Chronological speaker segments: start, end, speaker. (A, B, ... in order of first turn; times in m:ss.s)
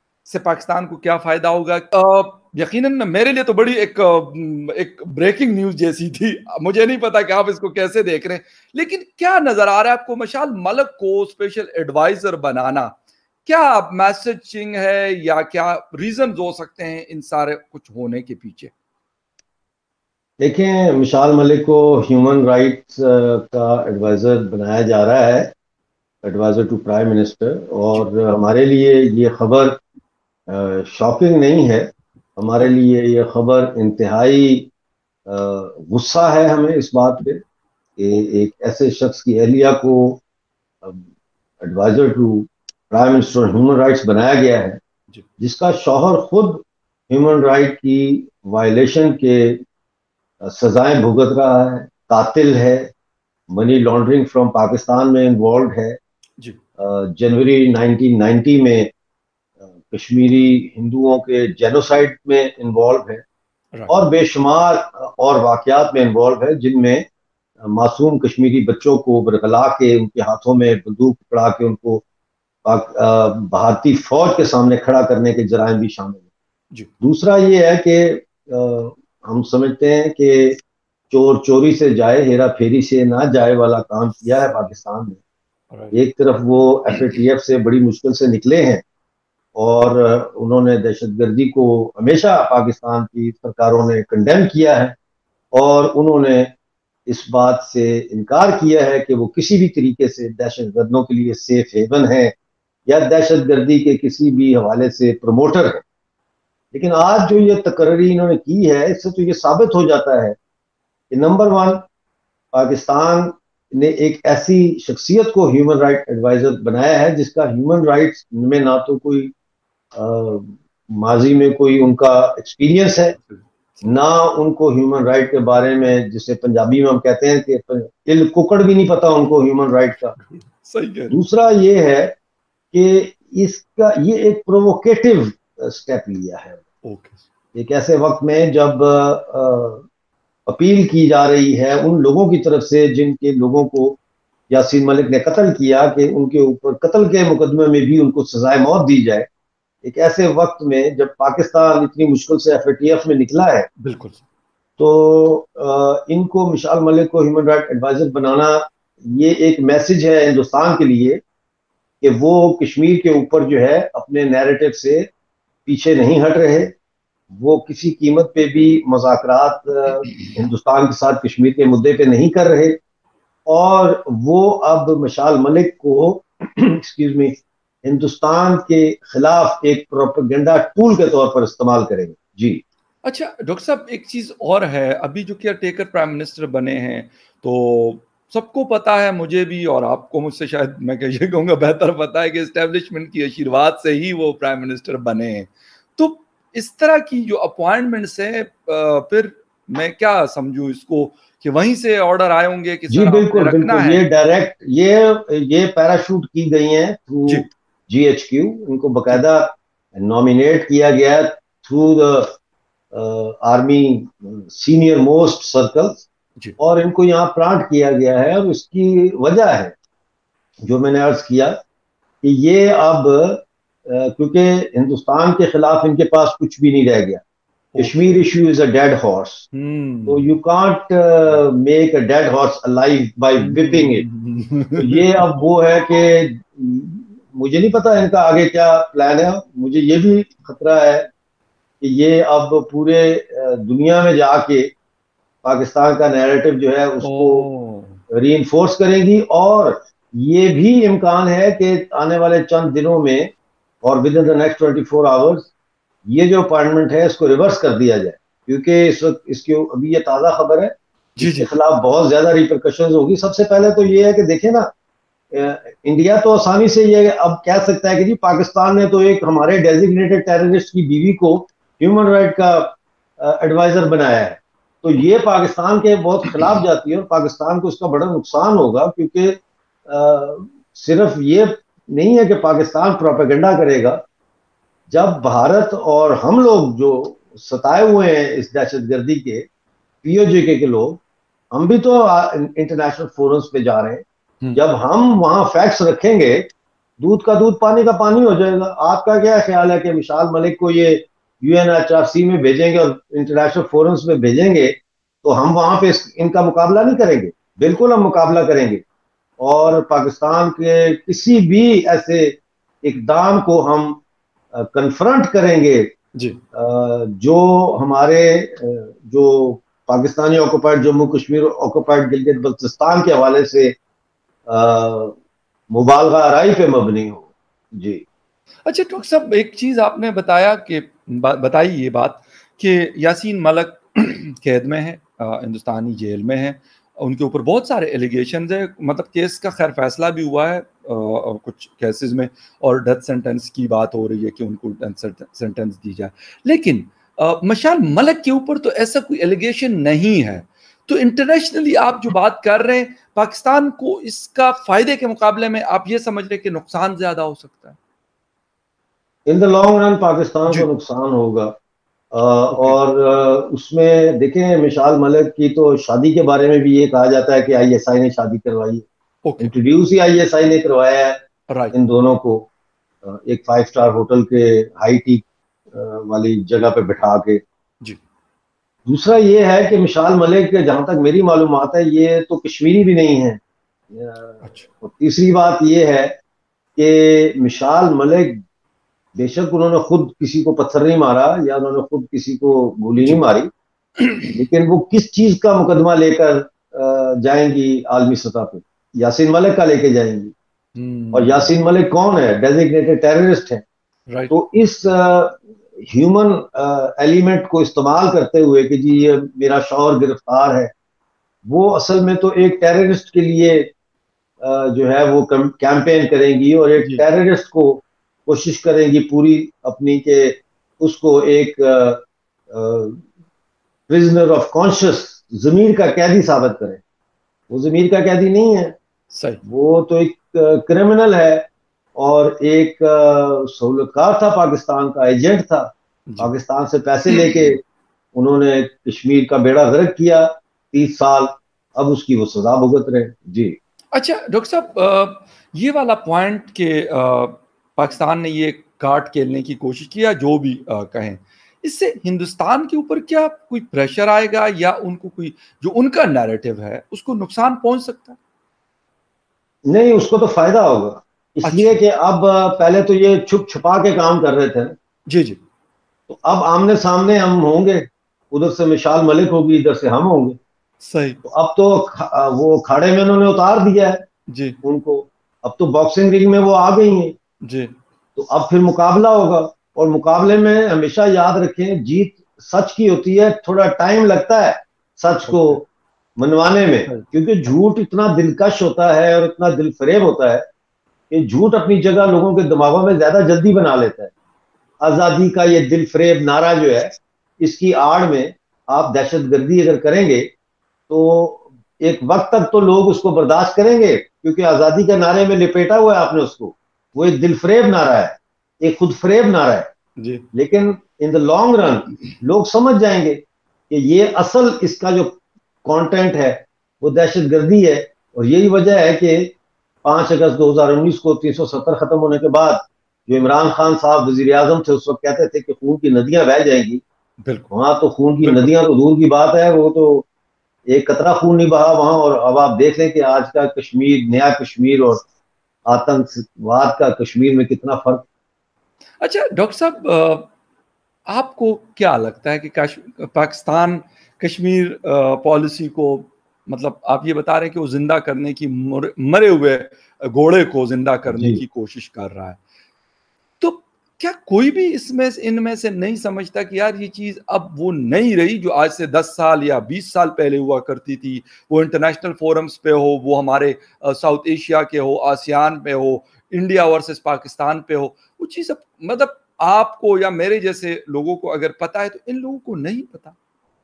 0:00.2-0:18.7 A
0:20.4-0:25.5 B
0:26.2-0:29.8 B
0:30.5-0:34.7 B
0:35.3-0:37.4 B
0:38.0-0:40.2 B
0:41.6-0:44.8 B
0:45.4-0:49.6 B
0:50.4-0:52.9 B
0:53.5-0:56.0 B
0:56.8-0:58.9 B
0:59.9-1:03.2 B
1:03.7-1:04.0 A
1:03.9-1:07.0 B
1:07.6-1:12.0 B
1:12.6-1:16.2 B
1:17.0-1:20.6 B
1:21.1-1:25.2 B
1:25.9-1:28.8 B
1:29.5-1:35.0 B
1:35.5-1:36.5 B
1:37.1-1:42.3 B
1:42.9-1:45.8 B
1:46.7-1:50.4 B
1:51.1-1:51.8 B
1:52.5-1:59.3 B
1:59.9-2:03.1 B
2:03.1-2:03.9 A
2:03.8-2:10.2 B
2:10.2-2:11.2 A
2:11.1-2:12.1 B
2:12.7-2:16.6 B
2:16.8-2:17.2 A
2:17.5-2:19.8 B
2:20.5-2:24.0 B
2:24.5-2:29.3 B
2:29.8-2:33.7 B
2:33.8-2:34.2 A
2:34.8-2:41.2 B
2:42.0-2:45.1 B
2:45.6-2:46.7 B
2:47.3-2:52.8 B
2:53.5-3:02.6 B
3:03.0-3:24.0 A
3:22.9-3:32.3 B
3:32.9-3:36.0 B
3:36.6-3:39.7 B
3:40.6-3:41.6 B
3:42.2-3:47.2 B
3:47.7-3:48.2 A
3:47.8-3:49.5 B
3:49.5-3:50.4 A
3:50.1-3:54.0 B
3:53.4-3:55.3 A
3:54.8-4:01.1 B
4:01.8-4:04.7 B
4:05.4-4:07.4 B
4:07.0-4:08.0 A
4:08.1-4:15.5 B
4:16.0-4:24.7 B
4:21.2-4:21.5 A
4:25.3-4:44.0 B
4:44.9-4:49.4 B
4:50.0-4:54.0 B
4:54.5-5:08.8 B
5:09.4-5:14.0 B
5:14.5-5:15.9 B
5:16.5-5:23.7 B
5:24.5-5:25.2 B
5:25.7-5:28.0 B
5:28.6-5:57.8 A
5:59.3-6:01.5 B
6:02.1-6:08.8 B
6:02.5-6:02.8 A
6:09.2-6:09.5 A
6:09.4-6:11.2 B
6:11.5-6:11.7 A
6:11.7-6:12.5 B
6:13.0-6:17.4 B
6:18.9-6:23.4 B
6:23.9-6:26.1 B
6:26.8-6:28.4 B
6:29.2-6:33.5 B
6:34.0-6:34.4 A
6:34.3-6:40.3 B
6:40.8-6:41.5 A
6:41.1-6:43.6 B
6:44.1-6:44.3 A
6:44.3-6:50.7 B
6:51.4-6:53.7 B
6:54.4-7:03.0 B
6:56.8-6:57.0 A
7:03.9-7:06.8 B
7:07.5-7:08.8 B
7:09.1-7:09.4 A
7:09.4-7:17.6 B
7:17.1-7:17.4 A
7:18.1-7:23.6 B
7:23.9-7:38.2 A
7:39.7-7:44.8 B
7:41.4-7:41.8 A
7:45.1-7:45.4 A
7:46.1-7:50.4 B
7:50.8-7:51.2 A
7:51.2-7:54.0 B
7:54.3-7:54.6 A
7:54.6-7:57.2 B
7:57.4-7:57.7 A
7:58.2-8:10.4 B
8:05.3-8:05.6 A
8:11.1-8:14.1 B
8:14.8-8:20.3 B
8:20.9-8:29.7 B
8:30.0-8:30.2 A
8:30.3-8:46.8 B
8:47.2-8:47.5 A
8:47.5-8:50.0 B
8:48.2-8:48.7 A
8:50.7-8:55.0 B
8:55.7-8:58.0 B
8:59.0-9:00.3 A
9:01.1-9:12.4 A
9:11.1-9:11.4 B
9:13.4-9:33.2 A